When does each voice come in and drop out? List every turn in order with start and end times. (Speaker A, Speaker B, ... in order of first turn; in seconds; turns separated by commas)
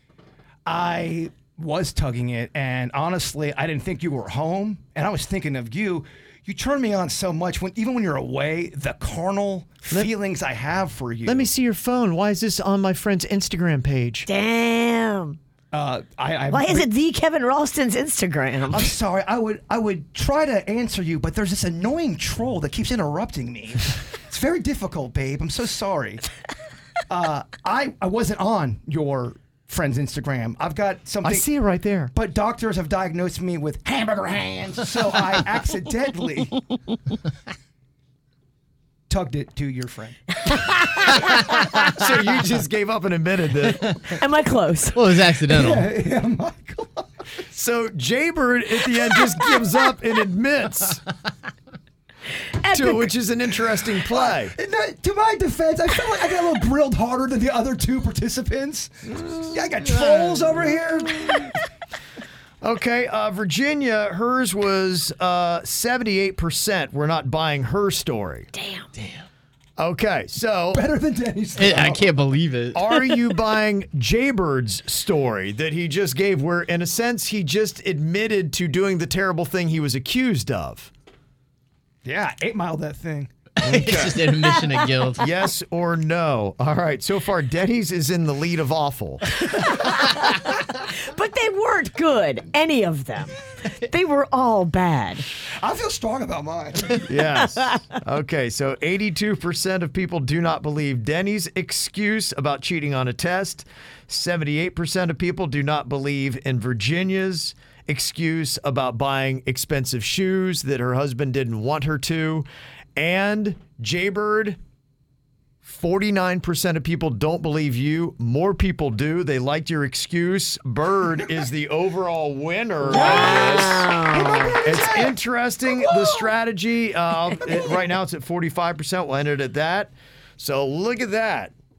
Speaker A: 0.7-11.5, Speaker B: 11.2-14.3, Speaker C: 14.2-15.4, Speaker A: 15.7-16.9, Speaker C: 16.5-18.9, Speaker A: 18.7-26.2, Speaker A: 27.1-31.5, Speaker B: 31.2-32.1, Speaker A: 32.1-36.6, Speaker A: 39.1-40.2, Speaker C: 40.5-41.2, Speaker B: 41.8-43.9, Speaker C: 44.1-45.0, Speaker D: 44.9-45.9, Speaker A: 45.5-47.1, Speaker B: 47.5-51.0, Speaker C: 52.6-53.1, Speaker B: 52.7-54.5, Speaker A: 54.1-61.6, Speaker B: 62.6-68.5, Speaker C: 68.5-68.9, Speaker B: 69.8-70.8, Speaker A: 70.7-72.1, Speaker D: 71.6-72.8, Speaker B: 72.7-80.9, Speaker A: 82.0-83.3, Speaker D: 83.6-85.2, Speaker B: 83.6-84.2, Speaker B: 85.2-89.2, Speaker C: 89.5-95.2, Speaker A: 95.6-97.0, Speaker B: 97.0-114.6, Speaker B: 115.6-123.9, Speaker C: 122.9-124.5, Speaker A: 122.9-126.3, Speaker B: 124.6-131.5, Speaker A: 127.4-127.8